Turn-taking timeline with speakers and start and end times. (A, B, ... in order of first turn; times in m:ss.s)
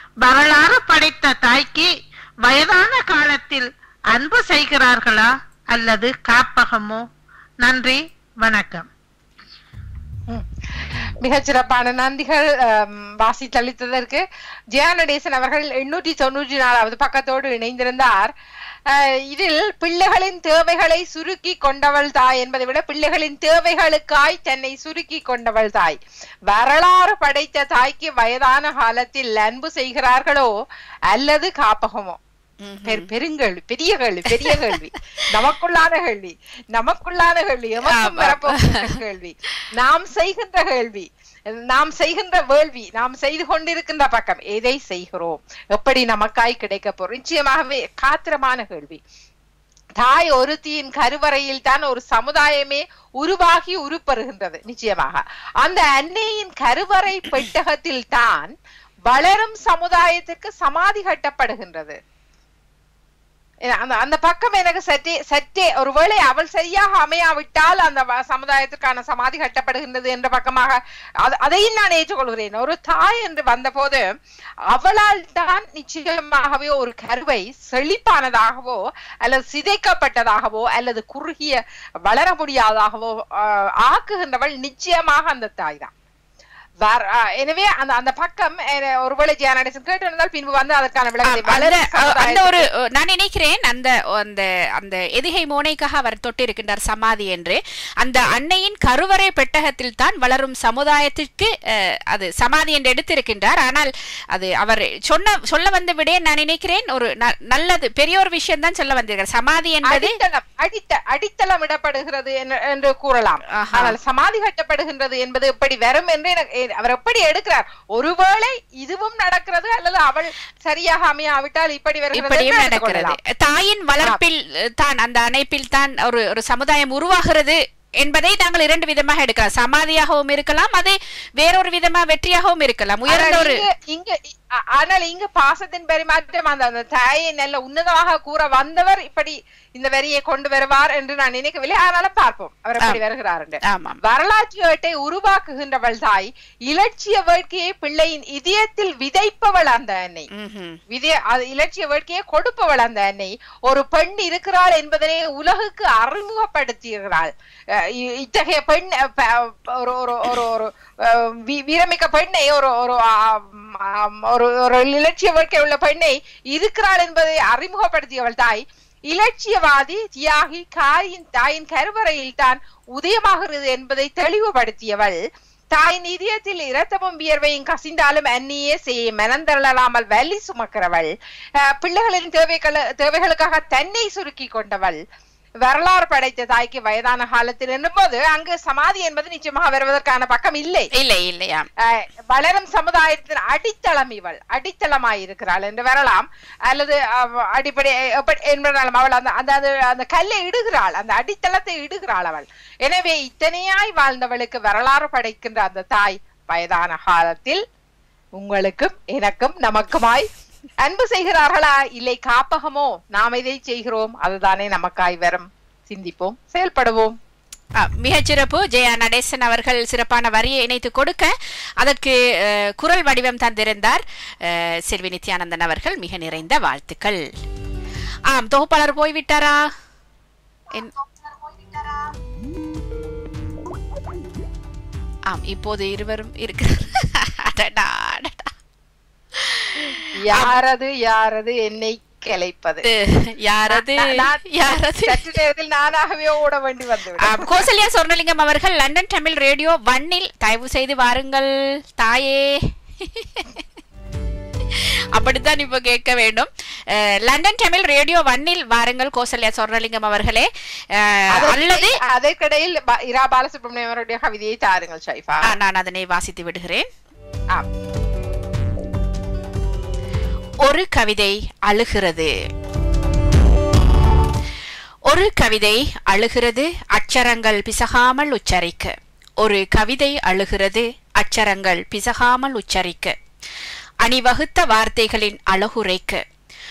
0:00.2-0:01.9 A
0:02.4-0:07.0 A
0:07.6-0:08.9 A
0:10.3-0:18.3 B
0:18.9-0:26.0 B
0:26.5-0:30.5 B
0:31.1-0:32.2 B
0:32.6-0:33.1 C
0:32.9-0:49.0 B
0:37.9-0:38.9 C
0:50.0-0:58.5 B
0:59.1-1:02.0 B
1:03.7-1:14.1 B
1:14.7-1:25.9 B
1:26.8-1:32.6 B
1:31.3-1:41.5 C
1:42.1-1:50.2 C
1:49.9-2:03.2 B
1:53.5-1:54.0 C
2:02.2-2:13.6 C
2:13.1-2:30.3 B
2:23.6-2:24.0 C
2:30.3-2:30.8 C
2:30.9-2:55.2 B
2:55.7-3:05.0 B
3:05.6-3:10.9 B
3:11.0-3:11.7 C
3:11.8-3:27.6 B
3:28.4-3:30.3 B
3:30.8-3:37.2 B
3:37.8-3:47.2 C
3:48.3-3:49.6 C
3:55.3-3:58.5 C
3:59.4-4:00.5 C
4:00.2-4:02.8 B
4:02.8-4:05.2 C
4:03.7-4:07.6 B
4:07.2-4:13.6 C
4:14.7-4:22.0 C
4:21.4-4:25.5 B
4:25.5-4:26.9 C
4:30.6-4:32.3 C
4:35.1-4:43.2 C
4:44.0-4:46.2 C